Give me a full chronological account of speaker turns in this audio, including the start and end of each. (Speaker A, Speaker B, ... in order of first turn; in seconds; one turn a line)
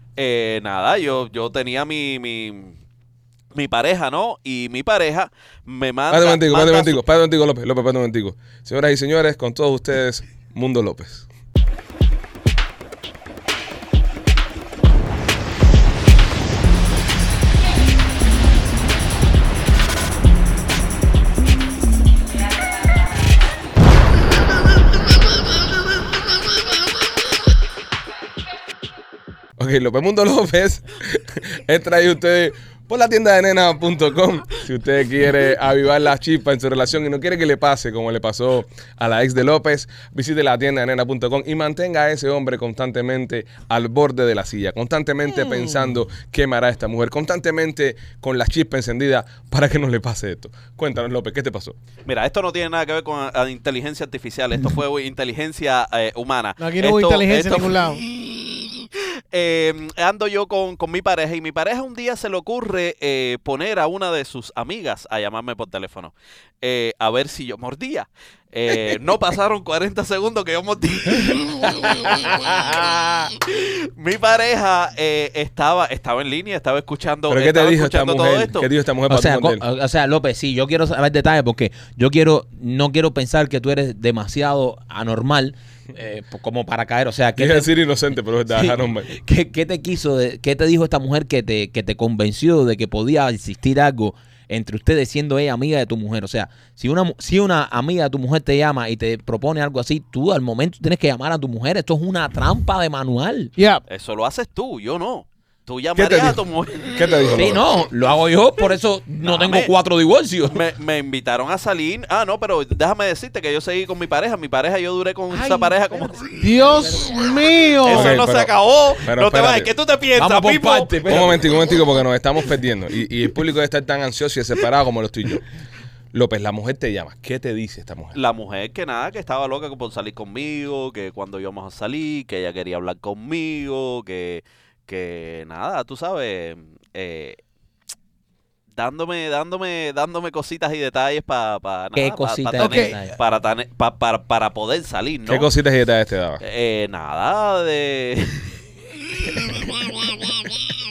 Speaker A: 0.2-2.7
Speaker A: 3.5-7.0
Speaker B: 6.1-11.3
Speaker B: 29.6-51.8
Speaker A: 52.0-78.7
Speaker C: 56.6-58.0
Speaker B: 77.3-79.6
Speaker D: 79.1-87.7
Speaker B: 87.4-89.1
Speaker D: 88.5-103.5
Speaker C: 103.6-103.8
Speaker A: 103.9-107.1
Speaker B: 106.0-107.6
Speaker D: 107.3-110.6
Speaker A: 109.2-109.7
Speaker A: 110.5-116.3
Speaker D: 115.3-117.1
Speaker C: 116.4-118.2
Speaker A: 117.8-121.2
Speaker B: 117.9-119.7
Speaker D: 120.2-121.5
Speaker B: 121.1-125.5
Speaker B: 126.1-128.2
Speaker A: 128.1-137.4
Speaker A: 138.8-145.5
Speaker D: 141.9-143.1
Speaker C: 142.6-143.0
Speaker B: 145.3-146.4
Speaker A: 146.4-148.6
Speaker A: 149.1-149.7
Speaker A: 150.3-150.5